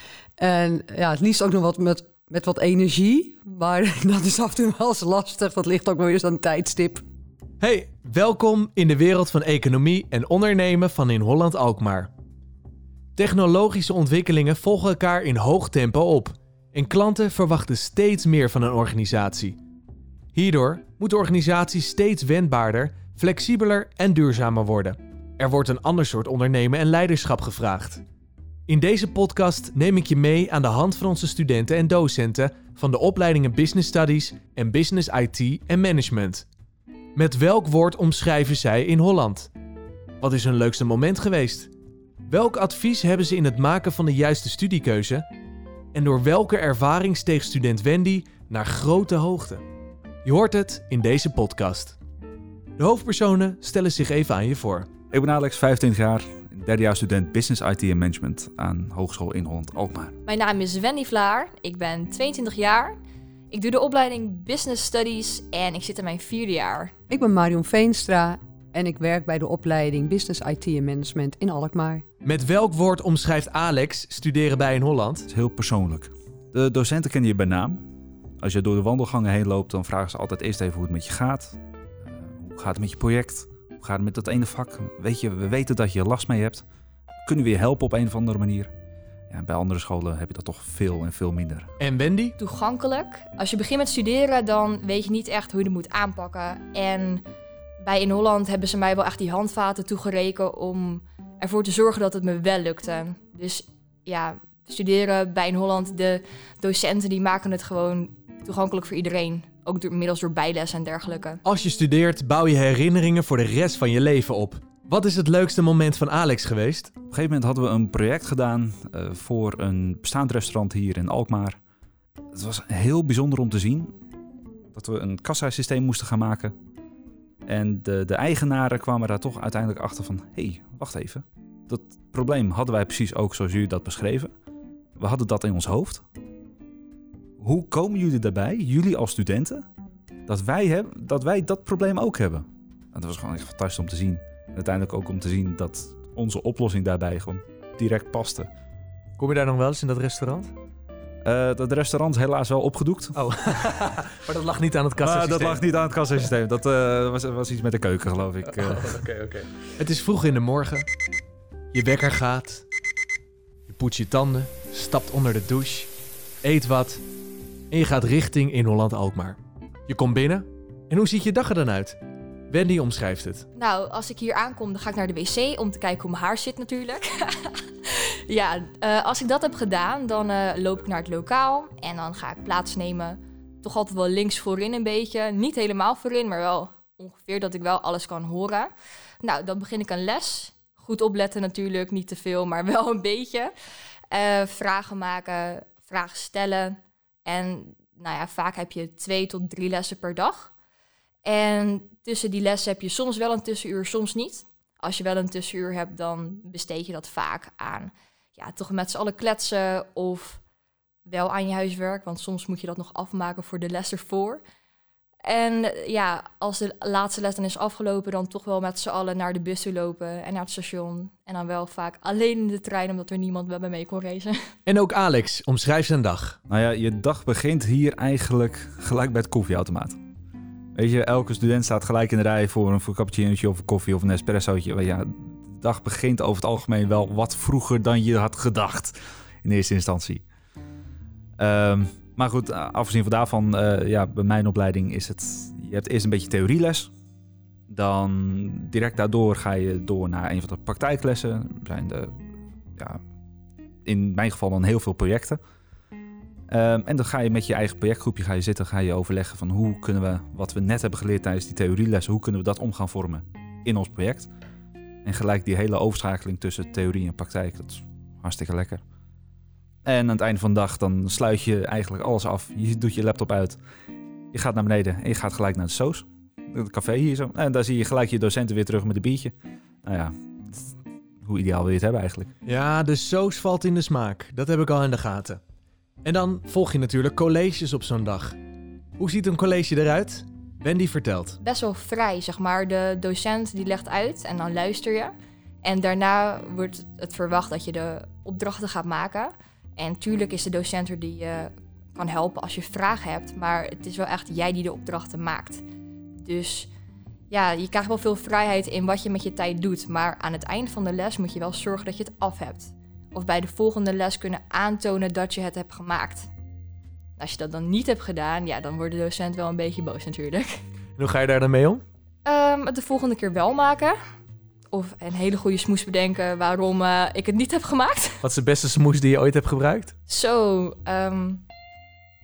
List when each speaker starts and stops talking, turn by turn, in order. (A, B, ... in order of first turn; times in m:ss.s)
0:00.4-0:07.0 A
0:07.6-0:12.1 B
0:13.2-0:19.6 B
0:20.3-0:28.0 B
0:28.7-0:36.4 B
0:37.1-0:39.5 B
0:40.2-0:41.7 B
0:42.3-0:45.2 B
0:45.9-0:49.6 B
0:50.2-0:52.0 B
0:52.8-0:54.9 B
0:55.1-1:00.2 C
1:00.2-1:03.0 D
1:03.5-1:06.9 D
1:07.1-1:12.0 A
1:12.2-1:15.2 B
1:15.3-1:17.8 C
1:18.4-1:26.6 C
1:27.2-1:28.7 C
1:29.3-1:31.7 C
1:31.8-1:32.3 B
1:32.4-1:37.2 D
1:37.8-1:51.4 D
1:51.4-1:56.9 B
1:57.1-2:01.6 C
2:02.3-2:04.0 C
2:04.7-2:06.5 C
2:07.4-2:14.3 C
2:15.0-2:16.0 C
2:17.4-2:19.6 C
2:20.3-2:28.5 C
2:29.2-2:30.5 B
2:31.2-2:33.2 C
2:33.2-2:35.6 B
2:35.0-2:39.0 C
2:38.8-2:40.9 B
2:41.7-2:42.6 B
2:43.7-2:45.9 B
2:46.4-2:47.0 B
2:47.7-2:52.0 B
2:52.5-2:53.4 B
2:53.6-3:08.7 D
3:09.2-3:13.5 D
3:14.1-3:20.5 D
3:21.2-3:30.4 D
3:31.0-3:34.4 D
3:35.2-3:44.4 D
3:44.6-3:46.4 B
3:46.5-3:50.0 C
3:50.7-4:00.2 C
4:01.4-4:06.9 C
4:07.7-4:12.2 C
4:13.8-4:15.4 C
4:16.5-4:24.3 C
4:25.0-4:28.8 C
4:29.8-4:33.6 C
4:34.3-4:39.3 C
4:39.8-4:42.3 C
4:42.4-4:45.4 B
4:46.0-4:48.4 B
4:49.0-4:51.4 B
4:51.4-4:55.1 D
4:55.6-5:05.6 D
5:06.2-5:06.7 D
5:07.3-5:16.3 D
5:17.2-5:20.6 D
5:21.0-5:21.8 B
5:22.2-5:23.9 D
5:24.7-5:28.2 D
5:28.2-5:29.9 B
5:30.1-5:31.4 D